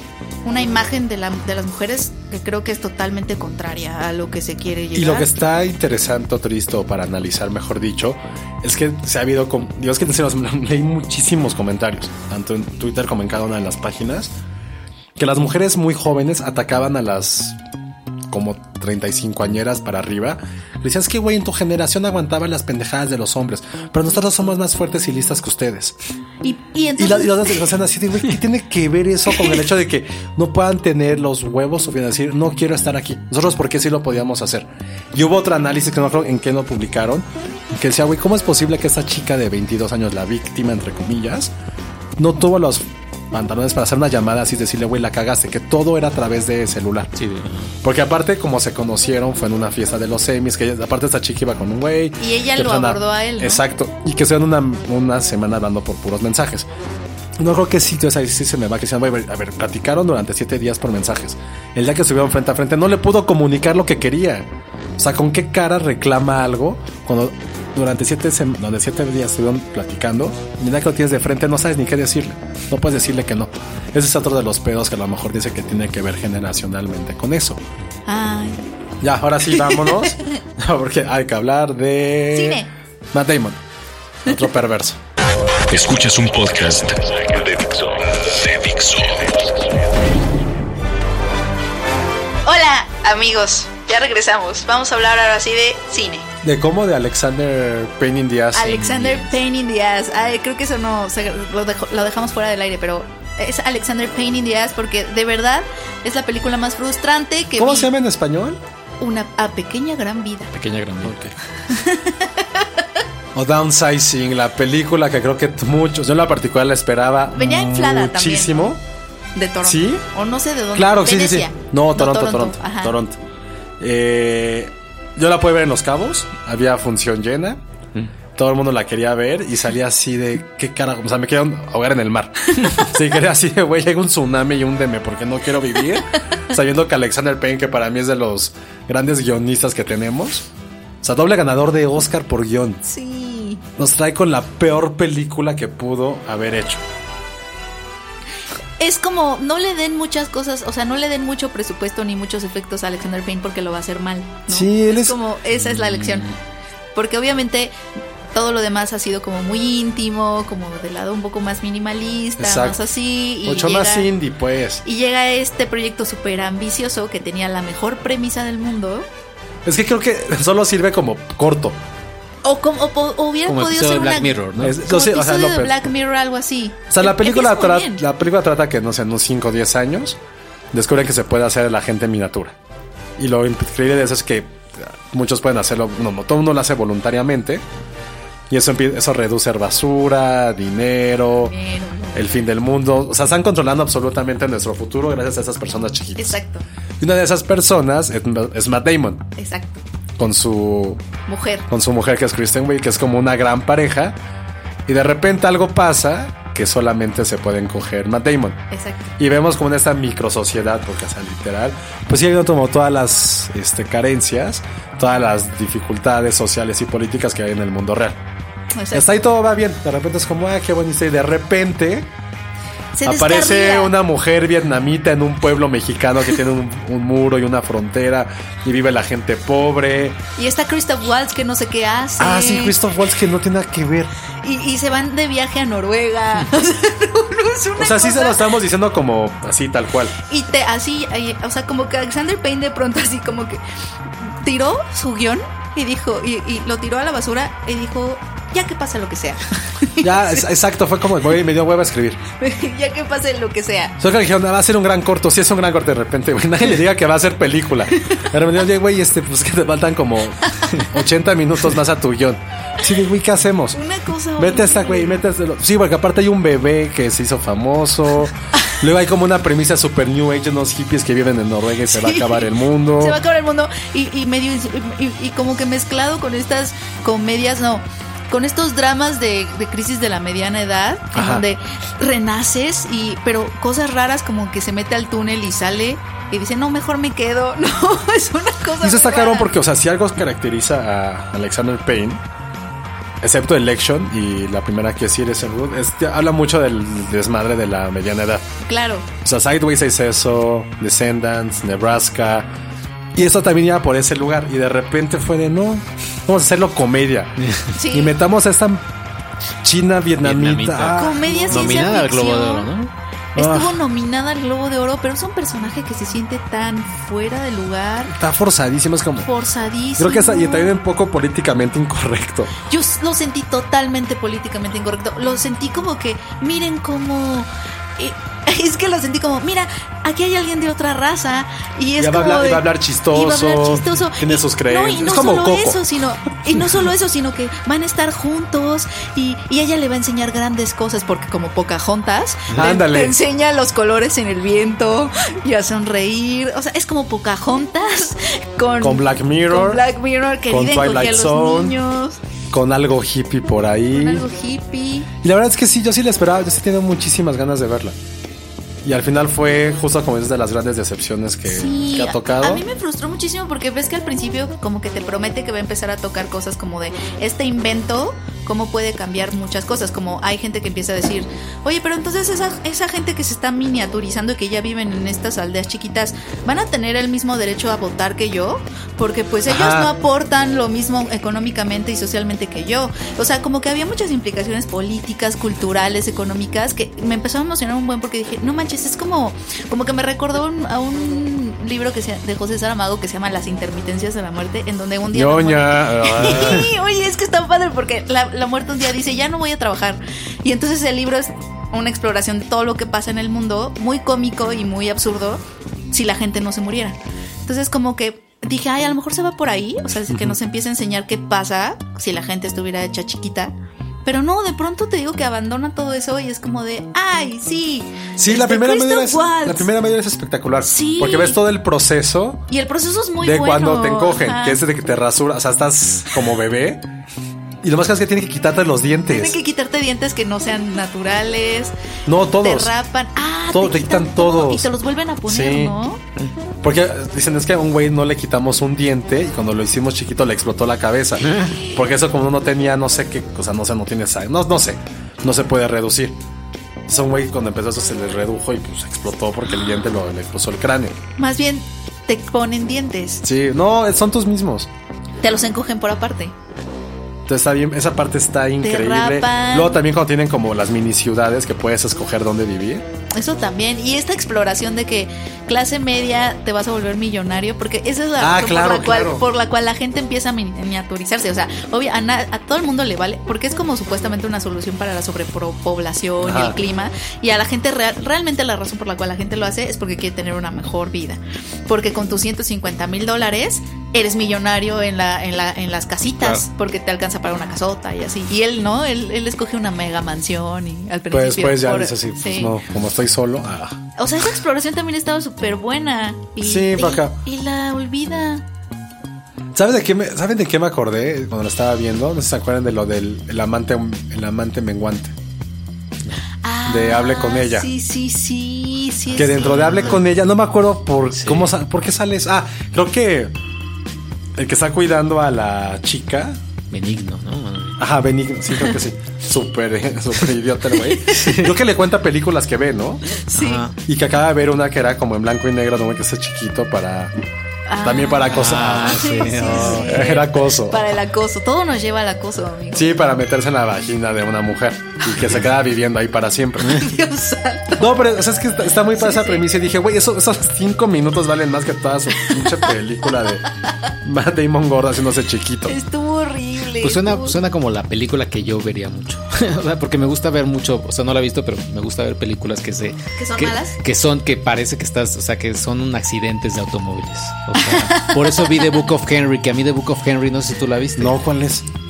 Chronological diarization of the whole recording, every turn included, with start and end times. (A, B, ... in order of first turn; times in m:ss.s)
0:00.4-0:05.3 A
0:04.9-0:14.3 B
0:15.2-0:17.6 B
0:18.3-0:26.0 B
0:26.4-0:27.7 A
0:27.0-0:41.5 B
0:42.2-0:47.1 B
0:47.2-0:47.7 C
0:47.8-0:56.7 B
0:52.2-0:53.6 A
0:57.4-1:17.6 B
1:18.1-1:18.7 A
1:19.0-1:23.6 B
1:19.5-1:20.4 A
1:22.3-1:22.7 A
1:24.3-1:25.0 B
1:25.7-1:29.6 D
1:32.4-1:36.3 A
1:36.4-1:38.8 B
1:38.5-1:47.9 A
1:38.6-1:39.4 C
1:47.6-1:48.6 B
1:49.0-1:50.5 A
1:50.5-1:51.2 C
1:51.0-1:51.4 B
1:51.7-1:52.7 A
1:53.4-1:58.8 B
1:57.4-1:58.7 A
1:59.4-2:03.0 A
1:59.6-2:00.0 B
2:00.8-2:03.2 B
2:03.8-2:07.6 B
2:08.4-2:20.5 B
2:21.0-2:22.8 B
2:22.8-2:23.6 A
2:23.8-2:26.8 B
2:28.8-2:36.3 A
2:34.5-2:35.2 B
2:35.6-2:36.4 C
2:37.0-2:37.8 A
2:38.3-2:44.1 A
2:42.4-2:42.8 B
2:43.4-2:44.8 B
2:44.8-2:49.1 A
2:49.6-2:51.8 B
2:52.4-2:58.0 A
2:53.5-2:54.8 C
2:54.6-2:55.8 B
2:56.9-3:00.2 B
3:00.7-3:02.6 B
3:03.2-3:07.6 B
3:08.5-3:11.6 B
3:11.4-3:12.5 A
3:12.1-3:16.4 B
3:16.2-3:16.7 A
3:17.0-3:19.3 B
3:19.4-3:19.8 A
3:20.2-3:21.0 B
3:21.3-3:21.7 A
3:21.7-3:24.2 B
3:24.9-3:28.6 B
3:28.7-3:29.1 A
3:29.2-3:38.2 B
3:38.8-3:39.1 A
3:38.9-3:42.1 B
3:43.0-3:44.0 A
3:43.0-3:50.2 B
3:50.4-3:52.8 A
3:52.2-3:54.1 B
3:54.4-3:58.5 A
3:57.8-4:00.2 B
4:00.3-4:03.6 A
4:04.2-4:10.4 A
4:10.0-4:12.2 B
4:12.4-4:14.0 A
4:14.0-4:23.8 B
4:23.7-4:25.2 A
4:24.4-4:33.2 B
4:31.9-4:49.5 A
4:41.1-4:41.5 B
4:48.8-4:52.2 B
4:53.2-4:58.5 B
4:58.6-4:59.1 A
4:59.2-5:02.5 B
5:03.2-5:07.4 B
5:07.7-5:08.2 A
5:07.9-5:08.8 B
5:09.6-5:11.9 B
5:10.2-5:12.9 C
5:10.9-5:12.7 A
5:13.4-5:18.2 A
5:13.4-5:13.8 B
5:18.1-5:19.3 B
5:19.2-5:20.7 A
5:20.0-5:22.5 B
5:22.7-5:52.2 A
5:32.0-5:35.8 B
5:42.5-5:43.2 B
5:48.8-5:49.9 B
5:50.5-5:51.8 B
5:52.5-5:54.3 B
5:53.9-5:55.1 A
5:55.2-5:58.0 B
5:58.8-6:02.7 B
6:01.5-6:53.5 A
6:19.5-6:19.9 B
6:35.1-6:36.7 B
6:54.0-6:59.7 A
6:58.2-7:02.4 B
7:00.6-7:01.4 A
7:02.5-7:04.6 A
7:03.2-7:06.8 B
7:07.6-7:09.4 B
7:09.1-7:11.7 A
7:12.1-7:12.7 B
7:12.4-7:16.0 A
7:13.5-7:14.7 B
7:15.3-7:15.8 B
7:16.6-7:26.2 B
7:26.9-7:31.0 B
7:31.2-7:33.2 A
7:33.2-7:34.7 B
7:35.2-7:36.3 A
7:37.3-7:42.9 B
7:38.6-7:39.8 A
7:43.2-8:12.6 A
7:48.2-7:49.3 B
7:56.2-7:56.6 B
8:11.1-8:13.8 B
8:14.0-8:18.4 A
8:16.4-8:17.2 B
8:19.5-8:25.2 B
8:26.4-8:30.0 A
8:26.7-8:27.7 B
8:29.2-8:33.4 B
8:31.1-8:31.5 C
8:34.4-8:36.4 B
8:36.7-8:37.8 C
8:37.8-8:43.0 B
8:41.1-8:41.6 C
8:43.2-8:43.7 A
8:43.3-8:43.8 C
8:43.8-8:47.1 B
8:47.7-8:53.0 A
8:47.8-8:50.9 B
8:48.3-8:50.1 C
8:52.7-8:56.9 B
8:56.7-8:58.1 A
8:57.8-9:03.4 B
8:58.7-8:59.5 A
9:02.2-9:02.7 A
9:04.0-9:05.8 B
9:05.7-9:07.4 A
9:06.8-9:21.2 C
9:13.2-9:13.8 A
9:17.7-9:18.6 A
9:21.0-9:21.6 B